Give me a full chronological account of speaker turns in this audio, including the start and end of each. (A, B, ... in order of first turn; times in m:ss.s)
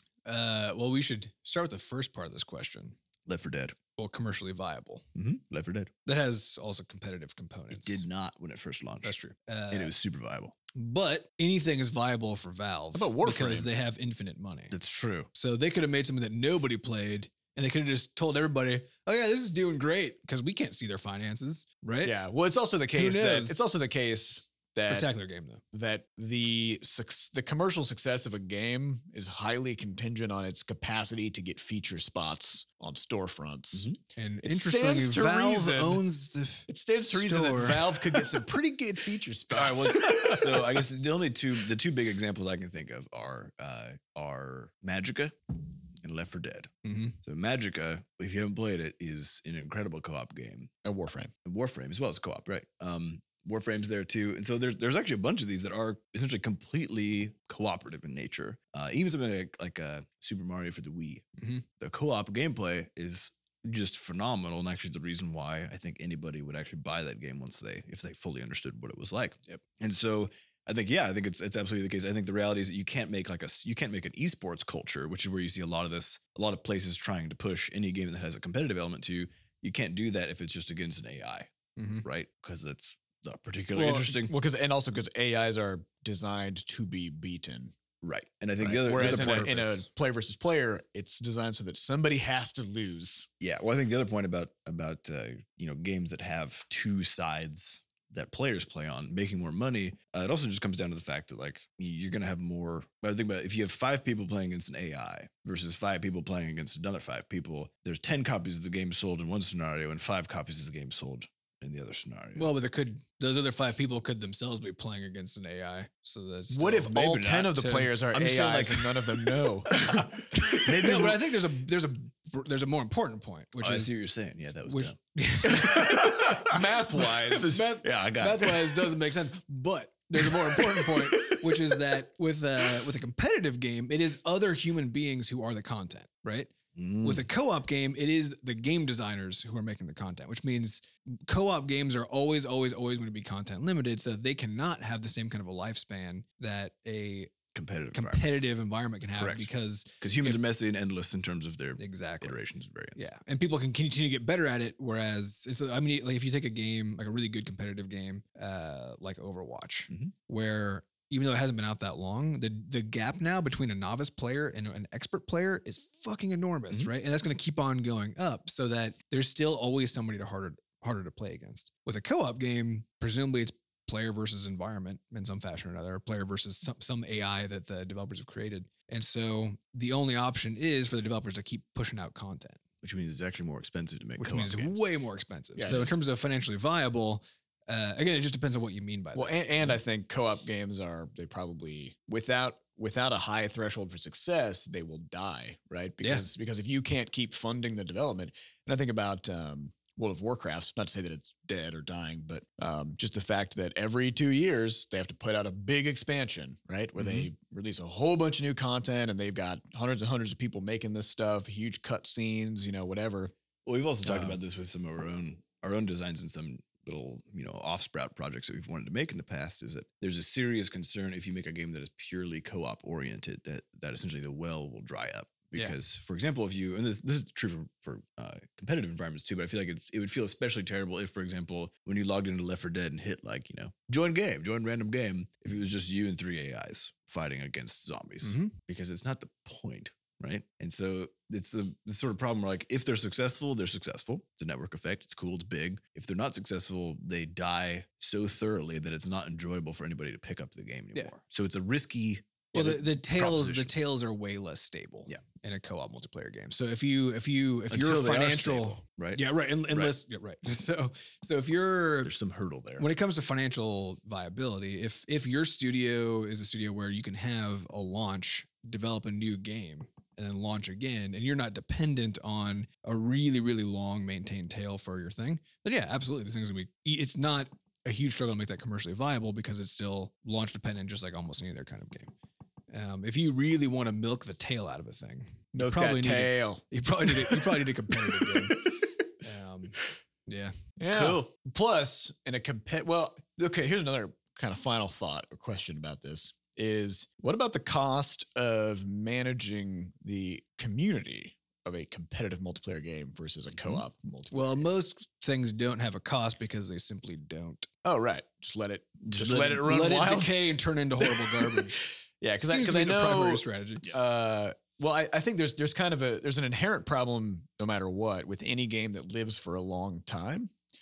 0:00.3-0:03.0 A
0:03.3-0:03.8 B
0:04.0-0:05.0 A
0:05.2-0:05.9 B
0:06.0-0:08.0 A
0:07.7-0:09.2 B
0:09.0-0:09.9 A
0:09.7-0:10.6 B
0:10.7-0:14.8 A
0:13.0-0:13.7 C
0:14.7-0:15.3 B
0:15.3-0:22.2 A
0:22.0-0:25.1 C
0:22.9-0:23.6 A
0:24.9-0:25.6 A
0:25.7-0:33.9 C
0:34.2-0:38.3 A
0:34.4-0:36.0 C
0:36.7-0:40.7 C
0:39.5-0:46.7 B
0:40.0-0:40.4 A
0:46.8-0:47.2 A
0:47.2-0:50.7 B
0:50.8-0:51.3 C
0:51.4-1:01.2 B
1:01.8-1:21.5 B
1:21.8-1:22.0 A
1:22.0-1:24.4 B
1:23.8-1:24.1 A
1:23.8-1:27.7 C
1:28.0-1:29.9 B
1:28.6-1:33.3 C
1:33.4-1:52.5 B
1:52.4-1:58.0 A
1:56.5-2:00.6 C
1:56.9-2:01.3 B
1:59.9-2:04.0 A
2:03.6-2:09.0 B
2:04.7-2:06.2 A
2:05.6-2:07.6 C
2:07.5-2:27.3 A
2:10.3-2:11.5 B
2:16.8-2:17.3 B
2:27.5-2:28.4 B
2:27.9-2:30.4 A
2:29.2-2:29.5 B
2:30.0-2:33.1 B
2:31.8-2:32.4 A
2:33.0-3:02.6 A
3:02.8-3:04.8 B
3:04.2-3:09.8 A
3:05.6-3:06.0 C
3:09.2-3:33.3 C
3:27.0-3:27.3 B
3:33.6-4:13.7 B
3:34.0-3:34.4 C
3:58.2-3:58.5 A
4:12.5-4:22.1 A
4:17.7-4:19.9 B
4:22.0-4:22.8 B
4:22.8-4:42.1 A
4:42.7-4:50.5 A
4:45.5-4:48.9 C
4:50.8-5:04.7 C
4:50.9-4:51.3 B
5:04.3-5:07.7 A
5:07.8-5:10.4 C
5:09.1-5:09.6 B
5:09.4-5:11.8 A
5:11.0-5:20.5 C
5:12.4-5:13.9 A